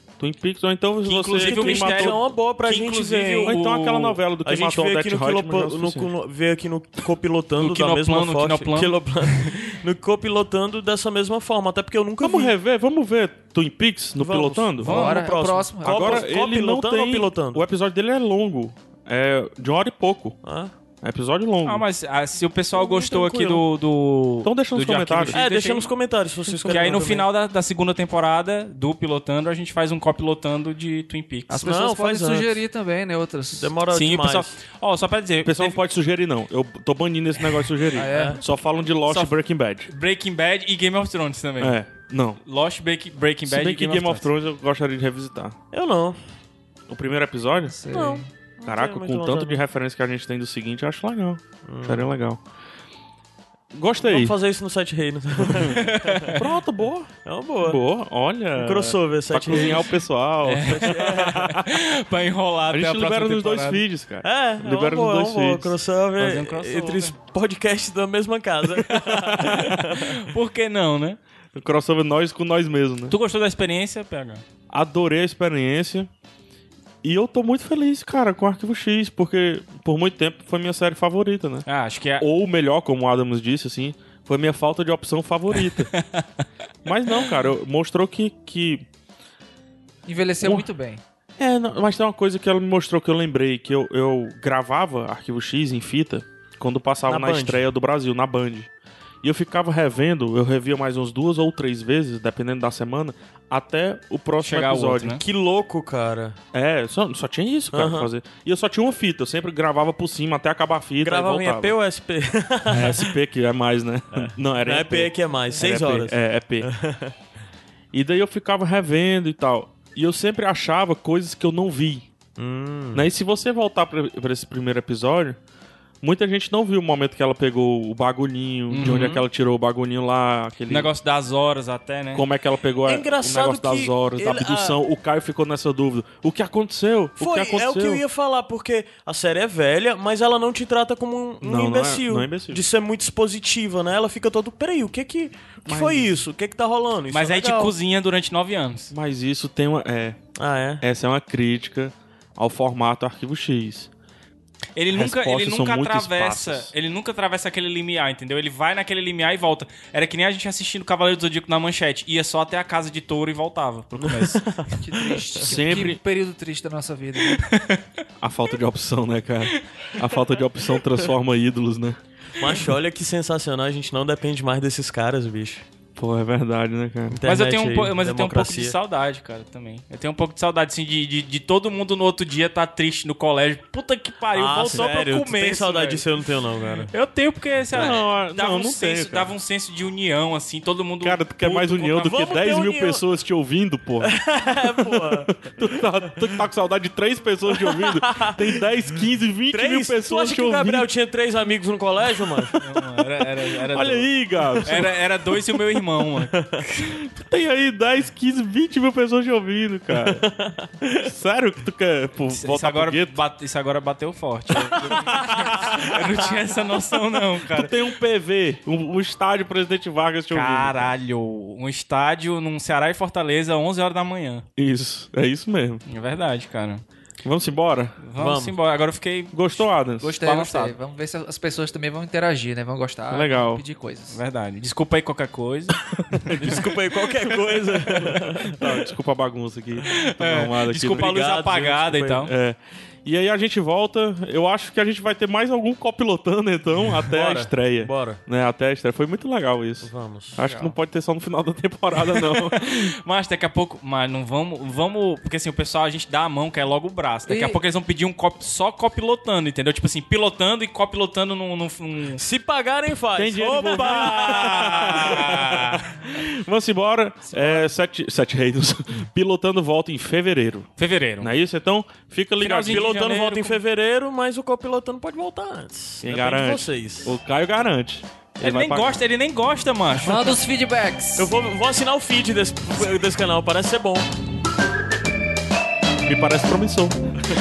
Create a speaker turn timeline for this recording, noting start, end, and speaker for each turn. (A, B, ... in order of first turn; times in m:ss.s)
0:00.2-0:02.2 A
0:01.0-0:04.1 B
0:01.4-0:12.5 C
0:03.4-0:06.1 A
0:07.6-0:09.0 B
0:12.2-0:15.0 A
0:14.2-0:17.6 C
0:14.8-0:16.2 D
0:14.9-0:15.2 B
0:15.8-0:20.4 A
0:20.4-0:20.7 C
0:21.0-0:21.8 A
0:21.6-0:25.9 B
0:22.7-0:23.6 C
0:24.4-0:25.4 A
0:25.3-0:27.3 C
0:26.5-0:27.1 D
0:26.6-0:31.6 B
0:31.5-0:33.7 D
0:31.6-0:32.6 C
0:33.5-0:34.6 C
0:33.9-0:35.8 B
0:35.4-0:39.9 A
0:37.9-0:38.4 D
0:38.0-0:38.4 C
0:39.1-0:39.3 B
0:39.9-0:41.8 B
0:41.6-0:42.4 A
0:42.4-0:44.3 B
0:43.4-0:45.6 A
0:45.7-0:46.2 C
0:46.9-0:47.8 A
0:47.6-0:48.3 D
0:47.9-0:49.6 C
0:48.6-0:52.4 A
0:51.6-0:52.1 C
0:53.7-0:54.3 A
0:54.0-0:56.3 C
0:55.4-0:55.7 A
0:55.7-0:56.4 B
0:56.3-1:01.7 A
0:57.2-0:57.8 C
0:58.6-0:59.9 C
1:00.4-1:03.8 B
1:00.7-1:01.5 C
1:02.7-1:05.8 A
1:04.2-1:10.1 C
1:06.2-1:07.1 B
1:09.3-1:11.2 B
1:09.4-1:09.8 A
1:11.5-1:13.2 A
1:13.1-1:14.4 B
1:14.7-1:16.1 A
1:17.0-1:21.6 A
1:21.6-1:22.3 B
1:22.2-1:25.9 A
1:25.6-1:26.4 B
1:26.8-1:28.8 A
1:30.0-1:31.0 D
1:30.4-1:30.7 A
1:31.4-1:38.7 A
1:37.1-1:37.6 C
1:39.2-1:45.2 A
1:44.4-1:45.2 B
1:45.2-1:46.4 C
1:46.5-1:51.8 A
1:47.7-1:48.1 C
1:51.0-1:53.1 C
1:52.7-1:56.7 A
1:54.1-1:57.1 C
1:57.9-2:02.1 A
2:02.4-2:03.1 C
2:02.9-2:05.4 A
2:06.0-2:10.9 A
2:08.7-2:09.2 B
2:10.7-2:12.2 B
2:12.1-2:18.0 A
2:12.8-2:14.8 C
2:17.2-2:27.7 C
2:21.4-2:22.6 A
2:25.7-2:26.1 A
2:27.1-2:28.9 B
2:28.9-2:30.2 A
2:30.4-2:30.8 C
2:30.8-2:33.9 A
2:34.8-2:44.6 B
2:34.9-2:36.7 A
2:44.0-2:44.7 C
2:44.8-2:47.4 D
2:45.4-2:46.0 A
2:47.4-2:47.9 B
2:48.2-2:52.0 A
2:52.4-2:55.6 C
2:56.0-2:57.2 A
2:57.1-2:58.8 C
2:57.2-3:06.0 B
3:04.3-3:06.9 C
3:06.9-3:12.2 B
3:07.7-3:09.3 A
3:11.0-3:20.9 A
3:12.0-3:13.0 C
3:14.0-3:16.2 C
3:17.5-3:18.6 C
3:19.5-3:22.6 C
3:22.6-3:24.1 B
3:23.7-3:25.0 A
3:24.6-3:26.7 B
3:26.3-3:26.6 C
3:27.0-3:30.2 A
3:30.0-3:30.7 C
3:30.8-3:33.2 A
3:32.3-3:37.7 B
3:35.1-3:35.8 A
3:35.2-3:35.5 C
3:37.5-3:40.9 A
3:40.3-3:44.4 B
3:44.6-3:45.8 A
3:45.9-3:46.8 B
3:47.2-3:48.0 A
3:48.0-3:50.7 B
3:48.2-3:48.6 C
3:49.3-3:50.2 A
3:50.0-3:54.2 D
3:53.1-3:53.6 A
3:54.1-3:56.2 B
3:55.8-3:56.8 A
3:56.4-3:58.9 C
3:57.3-4:01.2 A
3:59.9-4:02.3 B
4:00.9-4:02.3 C
4:02.2-4:12.9 A
4:06.9-4:08.2 C
4:09.8-4:10.4 C
4:12.1-4:22.2 B
4:17.3-4:17.6 D
4:22.2-4:25.0 C
4:23.2-4:32.9 A
4:23.6-4:25.8 B
4:27.3-4:27.6 D
4:30.8-4:31.3 B
4:32.4-4:33.6 B
4:32.7-4:37.2 C
4:36.0-4:39.0 A
4:38.4-4:40.4 B
4:40.0-4:41.3 D
4:41.2-4:44.1 C
4:46.0-4:47.0 A